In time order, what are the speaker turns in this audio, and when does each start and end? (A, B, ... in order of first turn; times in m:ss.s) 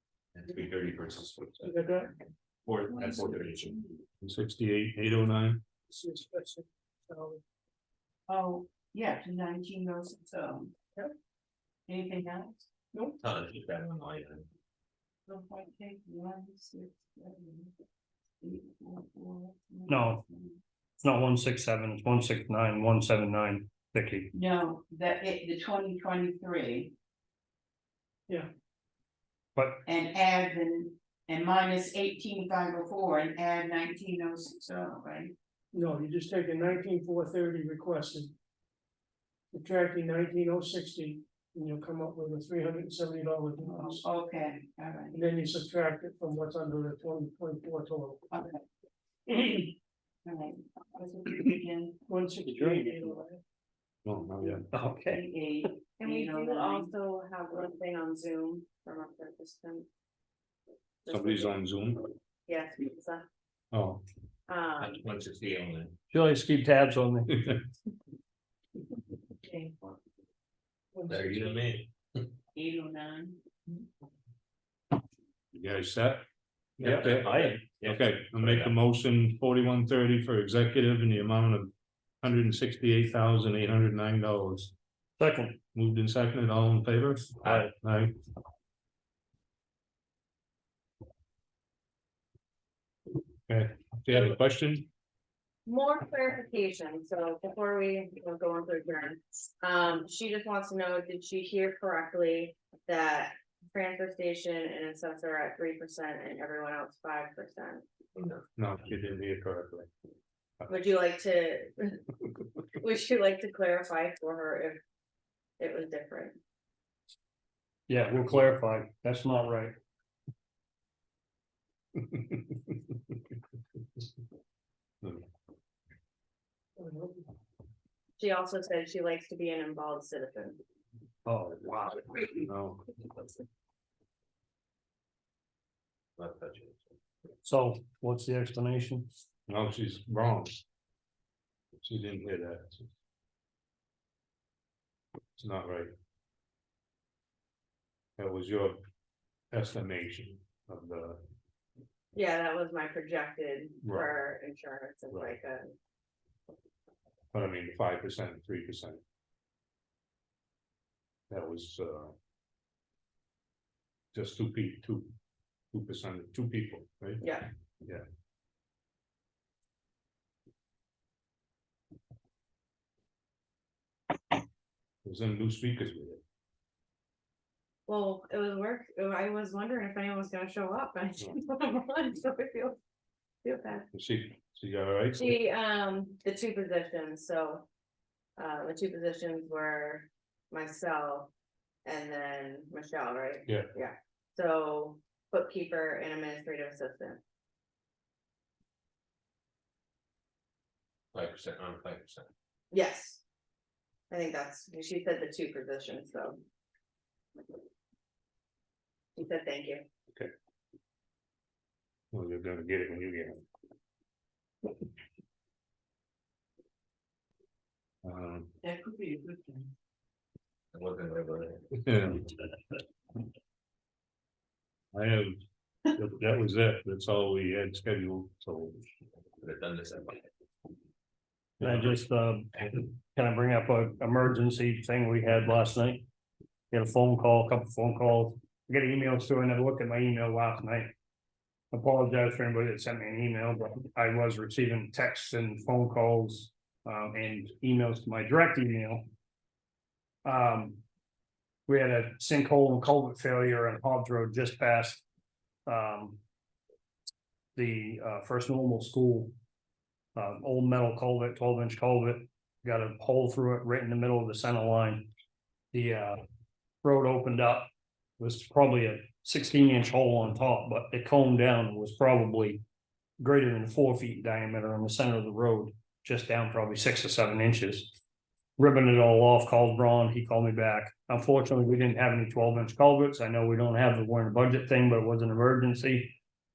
0:00.4-0:02.0 A
0:01.6-0:02.1 B
0:02.6-0:03.8 A
0:02.9-0:03.9 C
0:04.2-0:05.6 D
0:05.9-0:07.4 B
0:08.3-0:10.8 C
0:11.9-0:12.7 C
0:13.2-0:14.5 A
0:15.3-0:17.7 C
0:18.4-0:20.6 C
0:19.9-0:20.2 E
0:21.0-0:24.3 E
0:24.3-0:26.9 C
0:29.6-0:29.8 E
0:29.9-0:35.3 C
0:35.7-0:38.3 B
0:39.5-0:44.0 B
0:43.6-0:45.2 C
0:45.1-0:48.2 B
0:48.3-0:48.6 C
0:50.3-0:52.0 C
0:52.1-0:53.4 B
0:52.5-0:53.0 E
0:54.0-0:54.6 D
0:54.4-0:56.9 C
0:54.7-0:55.2 E
0:56.0-0:59.9 F
1:01.0-1:01.5 F
1:01.1-1:02.0 D
1:02.5-1:03.3 F
1:03.7-1:04.1 D
1:04.5-1:05.0 F
1:04.8-1:06.0 A
1:06.1-1:07.5 E
1:09.4-1:10.0 C
1:11.0-1:11.6 C
1:11.1-1:12.3 A
1:12.5-1:13.4 C
1:15.5-1:16.2 D
1:16.8-1:18.8 A
1:16.8-1:24.7 D
1:16.8-1:17.7 E
1:25.2-1:25.6 E
1:25.8-1:28.2 D
1:27.4-1:27.7 A
1:33.5-1:34.9 D
1:35.7-1:47.8 F
1:48.2-1:48.4 A
1:48.6-1:49.9 D
1:50.7-1:52.0 F
1:52.8-1:54.8 F
1:55.6-1:56.4 F
1:57.9-1:59.7 E
2:02.1-2:02.4 D
2:06.8-2:07.2 B
2:08.2-2:10.6 F
2:11.2-2:12.4 E
2:12.4-2:12.9 D
2:16.2-2:16.8 A
2:17.4-2:19.1 E
2:19.5-2:20.6 D
2:21.8-2:22.9 D
2:25.4-2:25.9 D
2:28.2-2:28.8 D
2:29.5-2:31.2 D
2:32.1-2:35.7 F
2:33.8-2:34.1 D
2:35.1-2:35.4 D
2:37.3-2:39.0 D
2:41.3-2:42.2 D
2:44.1-2:45.1 D
2:45.7-2:47.3 D
2:47.2-2:47.5 F
2:55.0-2:56.2 D
2:57.9-3:02.8 F
3:03.4-3:03.9 F
3:03.9-3:05.4 D
3:05.1-3:07.7 F
3:08.4-3:11.3 F
3:11.8-3:17.2 F
3:21.1-3:22.3 A
3:22.7-3:23.2 F
3:24.1-3:26.4 F
3:29.2-3:29.8 F
3:32.1-3:33.4 D
3:38.0-3:38.5 D
3:38.6-3:39.7 C
3:40.7-3:41.8 A
3:41.8-3:42.3 D
3:44.9-3:45.4 D
3:45.9-3:48.8 D
3:49.4-3:50.2 A
3:51.6-3:51.9 D
3:51.6-3:56.0 E
3:56.7-4:00.9 E
4:01.7-4:09.0 E
4:10.2-4:10.8 E
4:11.7-4:15.0 E
4:15.7-4:16.2 E
4:17.6-4:19.3 E
4:20.2-4:25.1 E
4:25.7-4:26.2 E
4:26.8-4:32.6 E
4:33.2-4:38.0 E
4:38.6-4:46.2 E